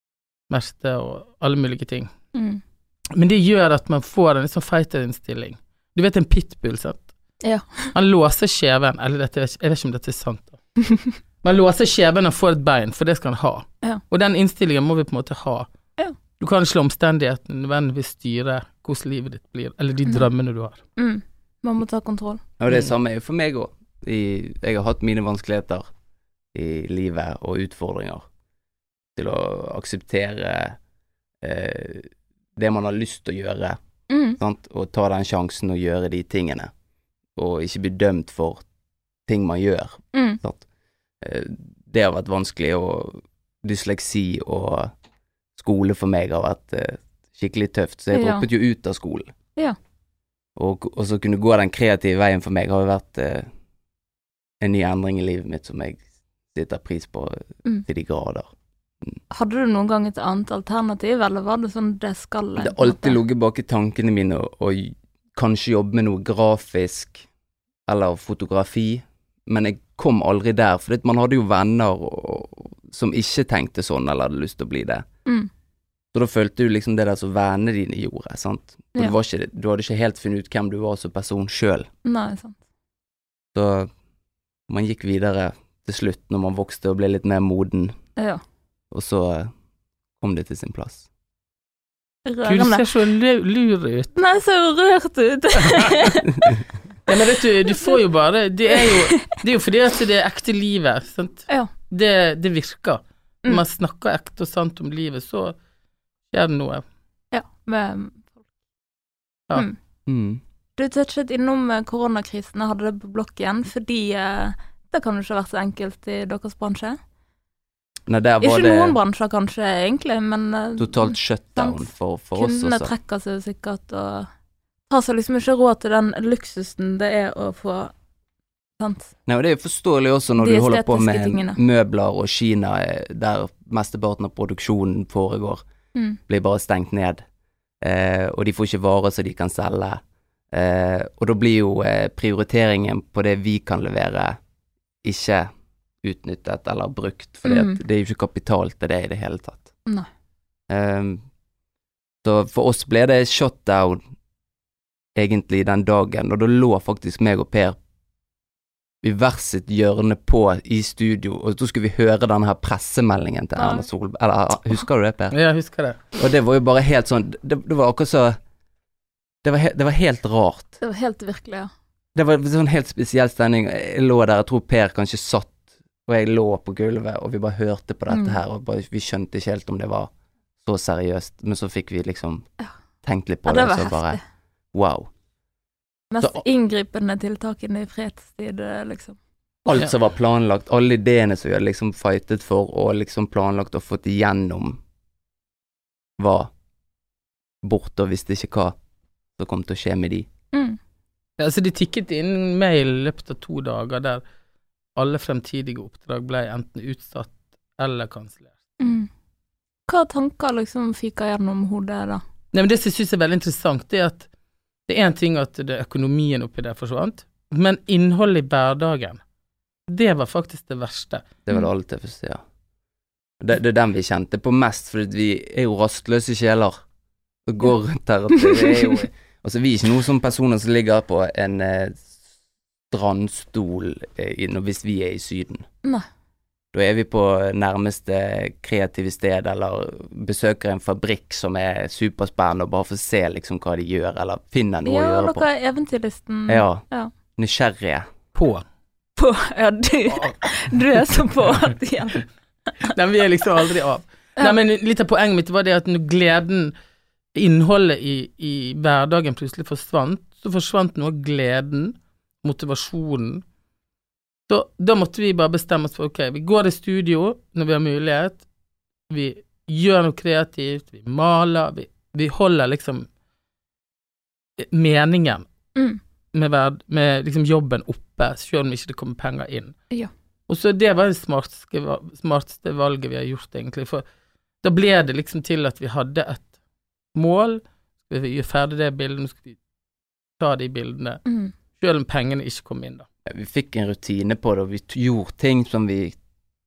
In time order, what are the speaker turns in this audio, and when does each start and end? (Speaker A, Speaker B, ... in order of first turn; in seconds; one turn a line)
Speaker A: 0.5-2.1
Speaker B: 2.4-2.6
Speaker A: 3.1-7.1
Speaker B: 7.4-7.9
Speaker A: 7.9-10.6
Speaker B: 10.9-11.1
Speaker A: 11.4-15.7
Speaker A: 16.4-20.8
Speaker B: 21.0-22.4
Speaker C: 22.6-25.9
Speaker C: 26.5-28.2
Speaker C: 29.2-30.8
Speaker C: 31.4-33.8
Speaker B: 34.1-34.4
Speaker C: 34.4-36.7
Speaker C: 37.4-38.6
Speaker C: 39.3-40.6
Speaker B: 40.1-40.4
Speaker C: 41.2-44.9
Speaker C: 45.6-49.3
Speaker B: 48.1-48.5
Speaker C: 50.6-53.5
Speaker C: 54.6-58.5
Speaker B: 59.3-63.2
Speaker C: 62.6-67.3
Speaker C: 67.9-75.0
Speaker C: 76.1-81.9
Speaker B: 82.0-82.6
Speaker C: 83.5-83.9
Speaker C: 84.7-88.0
Speaker C: 88.9-89.5
Speaker C: 90.2-91.1
Speaker B: 92.2-92.8
Speaker A: 92.5-94.1
Speaker B: 94.2-96.3
Speaker A: 95.6-96.1
Speaker A: 97.1-105.6
Speaker B: 97.7-98.0
Speaker B: 98.7-99.4
Speaker A: 106.3-106.8
Speaker B: 107.3-108.4
Speaker C: 110.1-110.4
Speaker B: 110.8-117.0
Speaker C: 118.1-119.0
Speaker B: 118.4-124.3
Speaker C: 120.8-122.9
Speaker B: 124.9-127.9
Speaker B: 128.8-129.1
Speaker C: 129.2-135.6
Speaker B: 130.4-131.6
Speaker C: 136.3-137.2
Speaker C: 137.8-140.0
Speaker C: 140.5-144.4
Speaker C: 145.0-145.5
Speaker C: 146.0-149.7
Speaker B: 147.4-147.8
Speaker C: 150.7-151.2
Speaker C: 152.2-154.0
Speaker C: 155.2-157.8
Speaker C: 159.0-165.4
Speaker B: 163.6-163.8
Speaker A: 165.3-166.0
Speaker C: 166.2-168.4
Speaker C: 169.4-170.8
Speaker B: 170.8-171.7
Speaker C: 172.2-180.1
Speaker B: 178.1-178.4
Speaker C: 180.6-182.5
Speaker C: 183.0-184.2
Speaker B: 183.5-184.2
Speaker C: 184.7-185.1
Speaker B: 186.1-189.2
Speaker C: 189.7-194.8
Speaker C: 196.2-196.5
Speaker C: 197.6-198.8
Speaker C: 199.4-200.3
Speaker B: 200.5-200.8
Speaker A: 201.4-204.2
Speaker A: 205.0-208.5
Speaker B: 208.8-209.1
Speaker B: 209.9-212.2
Speaker A: 212.5-214.3
Speaker A: 214.9-219.2
Speaker A: 219.9-221.3
Speaker C: 221.5-222.4
Speaker C: 223.4-226.8
Speaker C: 227.5-232.2
Speaker C: 232.9-235.7
Speaker C: 236.7-245.5
Speaker B: 244.8-247.1
Speaker C: 246.5-246.8
Speaker C: 247.4-248.1
Speaker A: 248.3-248.6
Speaker B: 249.2-252.2
Speaker A: 252.8-256.7
Speaker A: 257.4-263.4
Speaker A: 264.5-268.4
Speaker A: 269.1-273.1
Speaker A: 274.6-275.5
Speaker B: 275.8-276.0
Speaker A: 276.3-279.7
Speaker A: 280.5-284.0
Speaker A: 284.6-286.5
Speaker A: 287.1-289.6
Speaker A: 290.4-291.2
Speaker B: 291.3-291.5
Speaker A: 291.8-293.1
Speaker C: 293.3-296.1